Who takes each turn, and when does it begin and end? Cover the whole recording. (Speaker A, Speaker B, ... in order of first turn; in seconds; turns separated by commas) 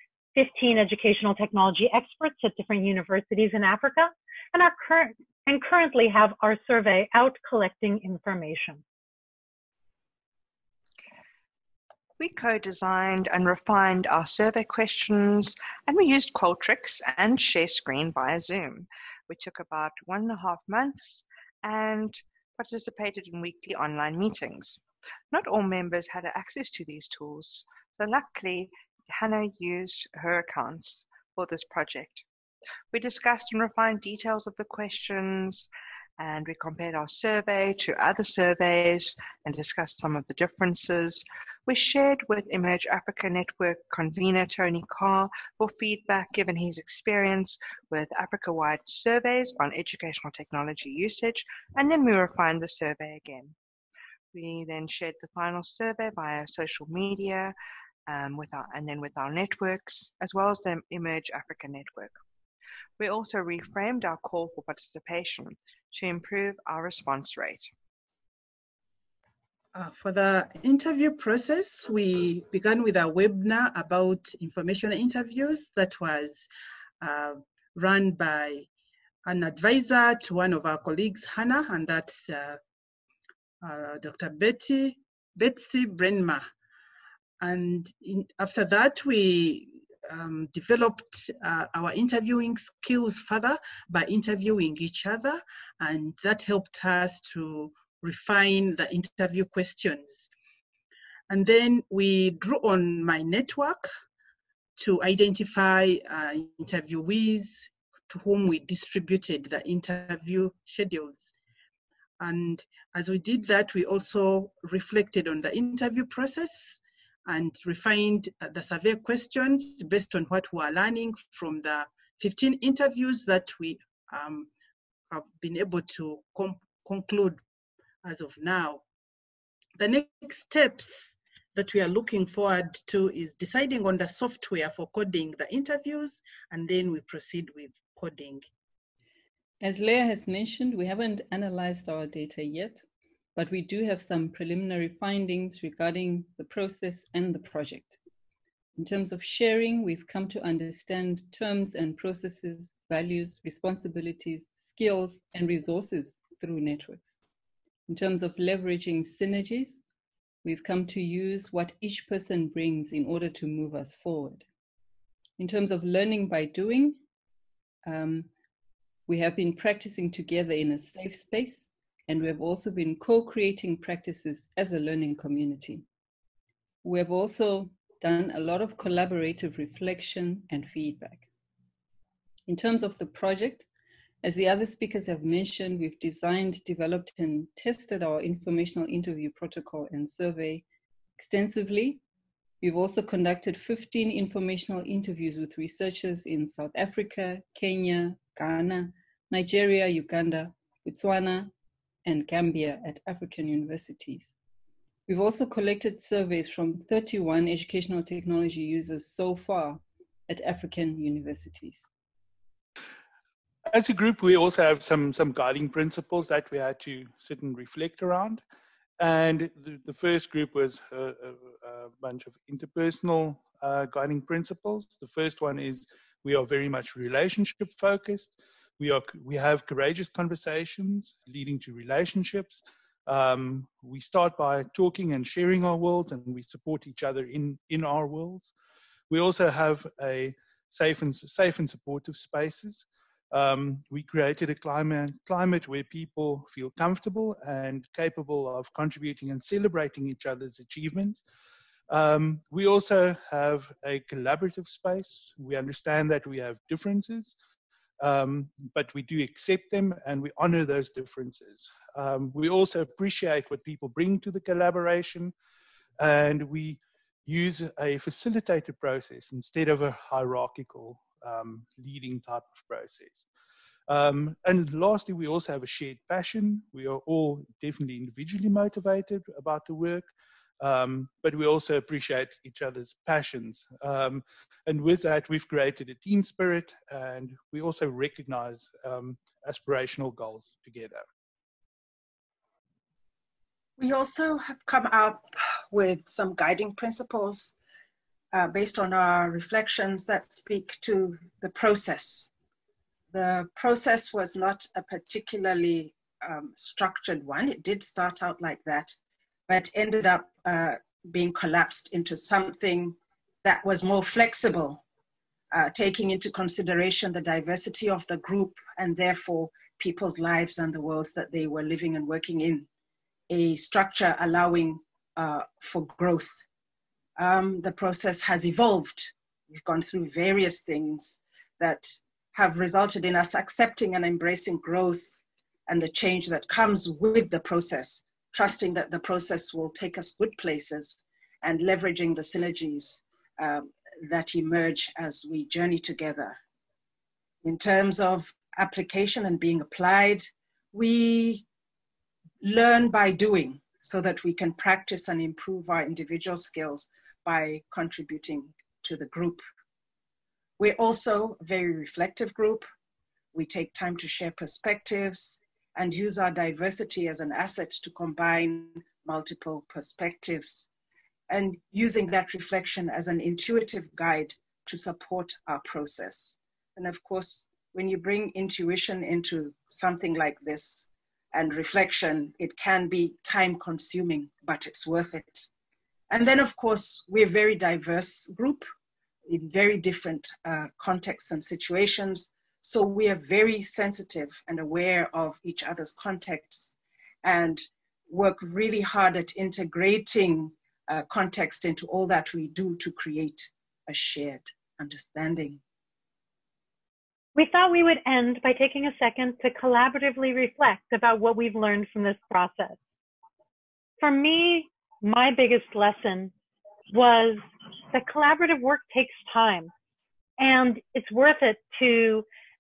Speaker A: 0.3-8.8, Speaker B: 12.2-32.3, Speaker B: 32.9-53.5, Speaker B: 54.3-57.5, Speaker B: 58.1-62.2, Speaker B: 63.0-67.7, Speaker C: 69.8-71.0, Speaker D: 69.8-76.3, Speaker C: 71.5-75.0, Speaker C: 75.5-76.5, Speaker C: 77.1-78.6, Speaker D: 77.8-78.6, Speaker D: 79.2-80.5, Speaker C: 79.3-82.6, Speaker D: 81.1-82.1, Speaker D: 83.6-86.4, Speaker C: 83.7-84.2, Speaker C: 84.8-85.5, Speaker C: 87.4-91.6, Speaker D: 87.4-89.3, Speaker D: 90.3-90.7, Speaker D: 91.5-97.5, Speaker C: 92.1-95.2, Speaker C: 95.9-100.3, Speaker D: 98.3-100.0, Speaker D: 101.3-103.7, Speaker C: 101.6-103.8, Speaker D: 104.8-105.9, Speaker C: 104.8-111.3, Speaker D: 106.7-107.3, Speaker D: 108.7-111.1, Speaker C: 112.2-124.5, Speaker D: 112.9-114.3, Speaker D: 119.0-119.3, Speaker D: 119.9-121.1, Speaker D: 122.2-122.8, Speaker C: 125.1-127.4, Speaker D: 125.5-126.1, Speaker D: 128.1-128.7, Speaker C: 128.1-128.8, Speaker D: 129.8-130.8, Speaker C: 129.9-138.4, Speaker D: 131.6-138.4, Speaker E: 139.6-142.8, Speaker E: 143.3-148.0, Speaker E: 148.8-157.2, Speaker E: 157.9-159.8, Speaker E: 160.4-164.4, Speaker E: 165.4-167.0, Speaker E: 167.8-168.3, Speaker E: 169.1-175.8, Speaker E: 176.8-181.3, Speaker E: 182.5-183.7, Speaker E: 184.2-190.7, Speaker E: 191.2-192.0, Speaker E: 192.6-201.5, Speaker E: 202.1-204.3, Speaker E: 205.1-211.9, Speaker F: 213.7-218.4, Speaker F: 219.0-238.5, Speaker F: 239.1-251.2, Speaker F: 251.9-257.4, Speaker F: 258.0-265.3, Speaker F: 266.0-273.3, Speaker F: 273.9-291.0, Speaker D: 293.8-297.5, Speaker D: 298.3-302.3, Speaker D: 303.1-308.9, Speaker D: 309.5-314.8, Speaker D: 315.5-322.7, Speaker D: 323.3-326.4, Speaker D: 327.2-346.4, Speaker D: 347.4-351.5, Speaker D: 352.4-359.4, Speaker D: 360.6-362.6, Speaker D: 363.3-370.7, Speaker D: 371.3-385.5, Speaker D: 386.1-388.6, Speaker D: 389.3-405.6, Speaker A: 407.4-412.8, Speaker A: 414.0-416.3, Speaker A: 416.9-419.7, Speaker A: 420.4-422.3